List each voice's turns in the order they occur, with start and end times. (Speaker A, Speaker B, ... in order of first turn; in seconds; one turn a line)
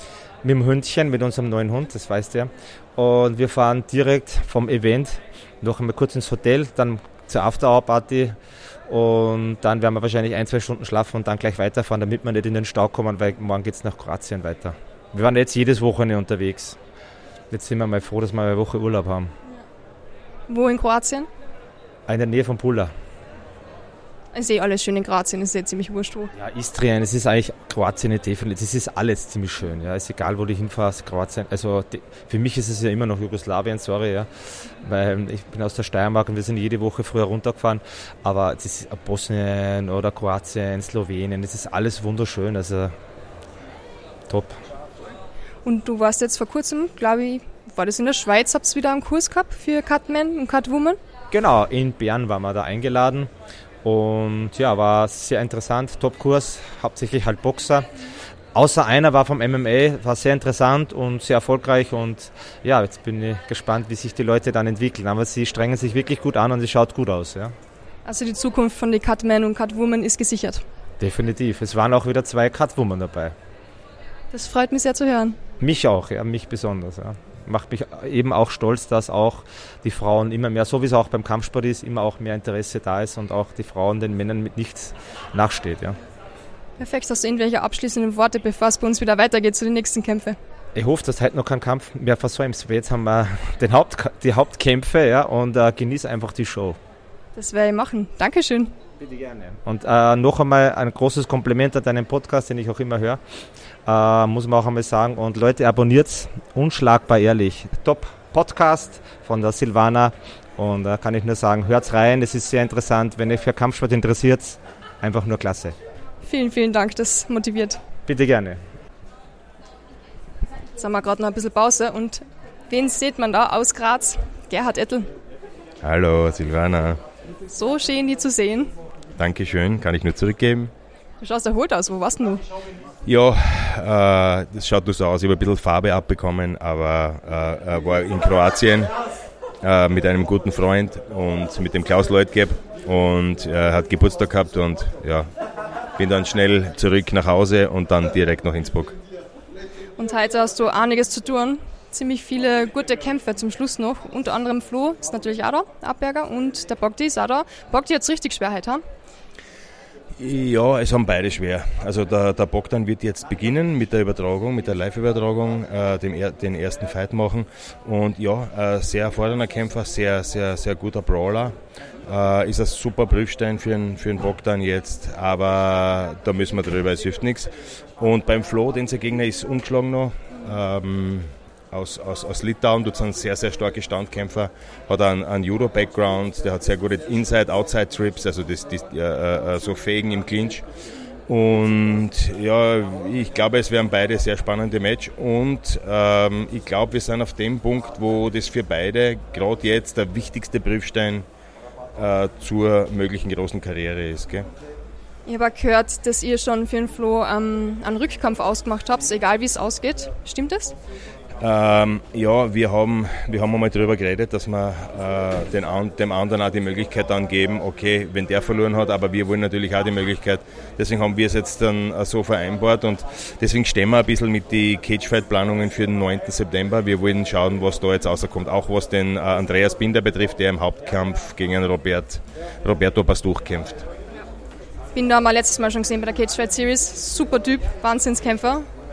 Speaker A: 0.4-8.4
Speaker A: 8.9-16.8
Speaker A: 17.5-19.3
Speaker B: 20.5-21.3
Speaker A: 22.1-22.9
Speaker B: 24.3-26.3
Speaker A: 26.4-34.3
Speaker A: 34.8-42.9
Speaker A: 44.3-44.6
Speaker B: 45.6-51.0
Speaker A: 51.3-53.3
Speaker A: 53.8-57.9
Speaker A: 58.5-67.5
Speaker B: 68.0-70.6
Speaker A: 71.0-73.3
Speaker B: 74.3-75.4
Speaker A: 75.6-86.0
Speaker B: 86.8-90.4
Speaker A: 90.7-96.8
Speaker B: 97.4-98.7
Speaker A: 99.0-103.2
Speaker A: 103.9-115.7
Speaker B: 116.2-117.8
Speaker A: 118.1-118.6
Speaker B: 120.8-125.1
Speaker C: 125.8-127.0
Speaker B: 127.5-128.7
Speaker C: 129.2-130.7
Speaker B: 131.2-132.4
Speaker C: 133.0-138.9
Speaker C: 139.6-145.3
Speaker C: 145.9-148.9
Speaker B: 150.0-158.8
Speaker C: 160.2-190.6
Speaker C: 191.3-201.2
Speaker C: 201.9-204.5
Speaker B: 205.2-210.7
Speaker C: 211.4-233.8
Speaker B: 234.9-238.7